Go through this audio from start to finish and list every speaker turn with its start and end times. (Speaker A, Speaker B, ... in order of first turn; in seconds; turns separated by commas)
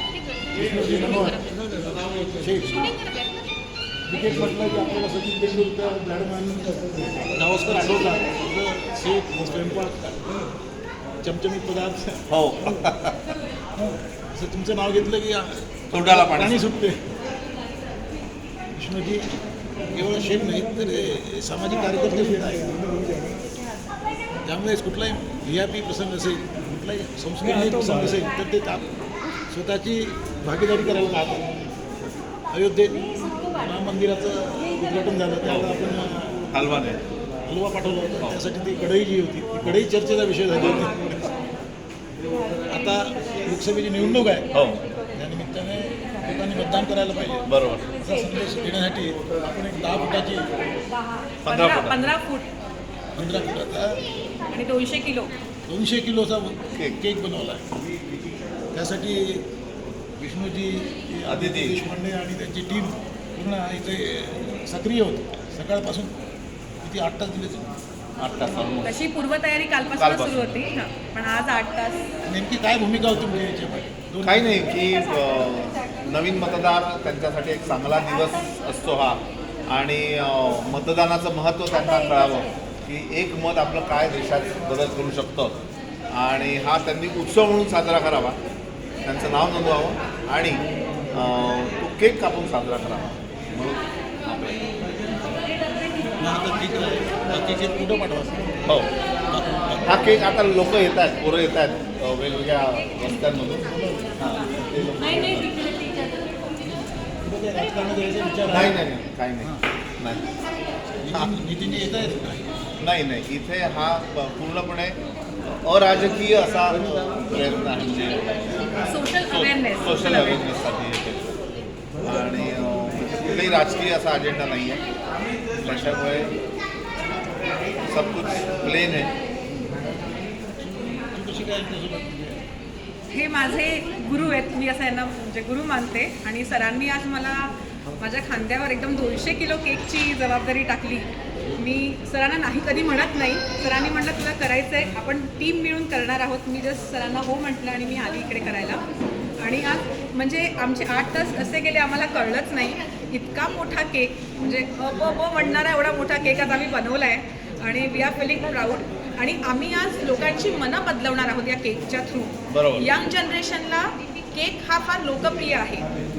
Speaker A: 0.5-1.4, Speaker A: 2.4-2.9, Speaker A: 4.1-10.2, Speaker A: 11.2-12.2, Speaker B: 12.3-13.3, Speaker A: 13.8-17.1, Speaker B: 15.9-16.7, Speaker A: 18.8-19.3, Speaker A: 19.9-23.4, Speaker A: 24.4-28.9, Speaker A: 29.5-31.7, Speaker A: 32.5-36.5, Speaker B: 35.5-35.8, Speaker B: 36.5-37.0, Speaker A: 37.5-41.3, Speaker A: 42.7-44.5, Speaker B: 44.5-44.8, Speaker A: 45.1-50.5, Speaker B: 47.5-48.0, Speaker B: 51.4-52.0, Speaker C: 51.4-52.5, Speaker A: 53.1-54.0, Speaker C: 54.5-55.3, Speaker A: 55.7-57.8, Speaker A: 58.7-59.5, Speaker A: 60.2-66.1, Speaker B: 61.2-61.8, Speaker A: 66.8-67.7, Speaker B: 68.2-68.9, Speaker C: 68.8-72.1, Speaker B: 69.9-70.5, Speaker A: 72.2-74.8, Speaker B: 74.2-85.6, Speaker B: 86.1-88.4, Speaker B: 89.0-94.7, Speaker A: 96.2-98.7, Speaker A: 99.3-100.2, Speaker B: 99.8-103.7, Speaker A: 103.6-105.0, Speaker B: 104.2-105.5, Speaker A: 107.2-108.8, Speaker B: 108.5-110.2, Speaker A: 111.0-112.6, Speaker B: 112.8-121.4, Speaker C: 118.8-120.4, Speaker B: 122.0-124.8, Speaker B: 125.6-126.3, Speaker B: 127.8-129.1, Speaker A: 130.6-132.4, Speaker C: 133.1-148.8, Speaker C: 149.4-165.9, Speaker B: 162.5-162.9